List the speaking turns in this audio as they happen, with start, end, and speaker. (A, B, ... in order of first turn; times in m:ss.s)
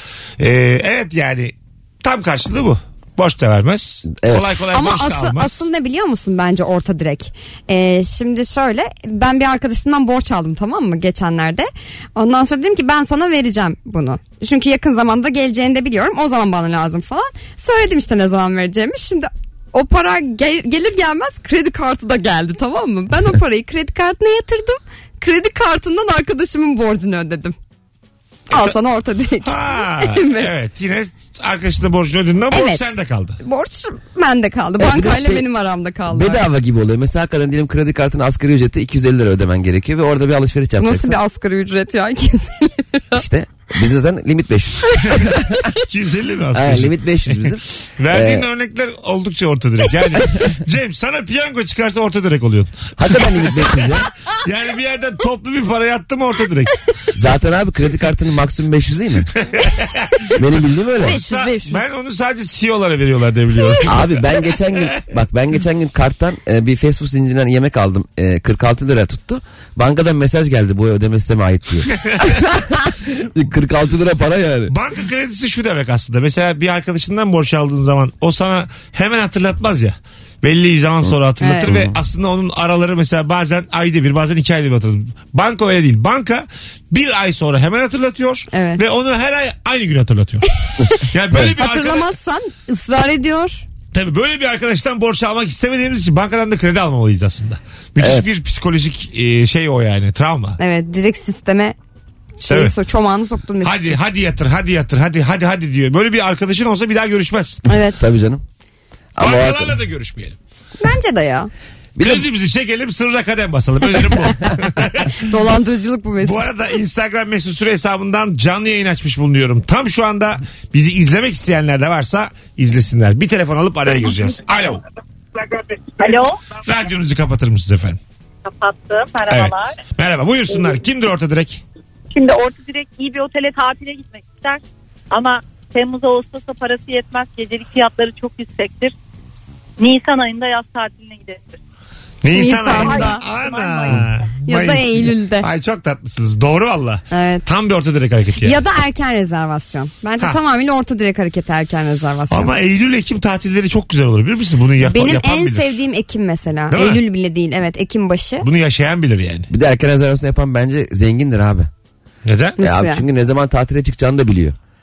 0:00.4-0:05.6 A
0:04.2-0:04.5 B
0:04.7-0:27.5 C
0:28.5-0:30.5 C
0:29.4-0:33.4 A
0:32.5-0:36.4 C
0:34.8-0:35.4 B
0:36.1-0:41.2 B
0:40.8-0:43.2 C
0:43.1-0:45.6 B
0:45.8-0:53.7 A
0:46.5-0:48.5 B
0:53.0-0:54.1 B
0:54.4-0:56.8 A
0:57.1-0:59.3 B
0:59.4-1:00.3 A
1:00.3-1:01.2 B
1:01.0-1:04.2 A
1:01.0-1:01.8 C
1:03.8-1:14.7 B
1:12.0-1:12.4 A
1:14.7-1:32.1 A
1:21.4-1:21.8 C
1:21.6-1:21.9 B
1:28.5-1:28.8 C
1:31.4-1:33.6 C
1:33.9-1:40.6 A
1:38.0-1:38.2 B
1:40.6-1:41.8 C
1:42.4-1:44.0 C
1:42.5-1:42.7 A
1:43.6-1:47.6 A
1:47.7-1:48.0 C
1:47.9-1:48.4 B
1:49.1-1:49.7 B
1:49.2-1:50.4 A
1:50.8-1:51.5 C
1:52.0-1:52.2 B
1:52.0-1:55.3 A
1:55.2-1:56.5 C
1:56.2-2:04.8 A
2:06.0-2:06.4 D
2:06.6-2:08.0 A
2:08.4-2:09.8 D
2:09.3-2:11.6 A
2:12.1-2:18.9 D
2:19.8-2:21.6 D
2:22.2-2:28.6 A
2:22.3-2:23.2 C
2:22.7-2:24.0 D
2:24.4-2:25.5 C
2:27.1-2:27.4 C
2:28.4-2:32.5 C
2:32.3-2:35.8 A
2:34.8-2:38.5 C
2:36.7-2:37.0 A
2:38.4-2:39.5 A
2:39.5-2:41.7 B
2:42.2-2:42.6 A
2:42.6-2:43.0 C
2:42.6-2:44.6 B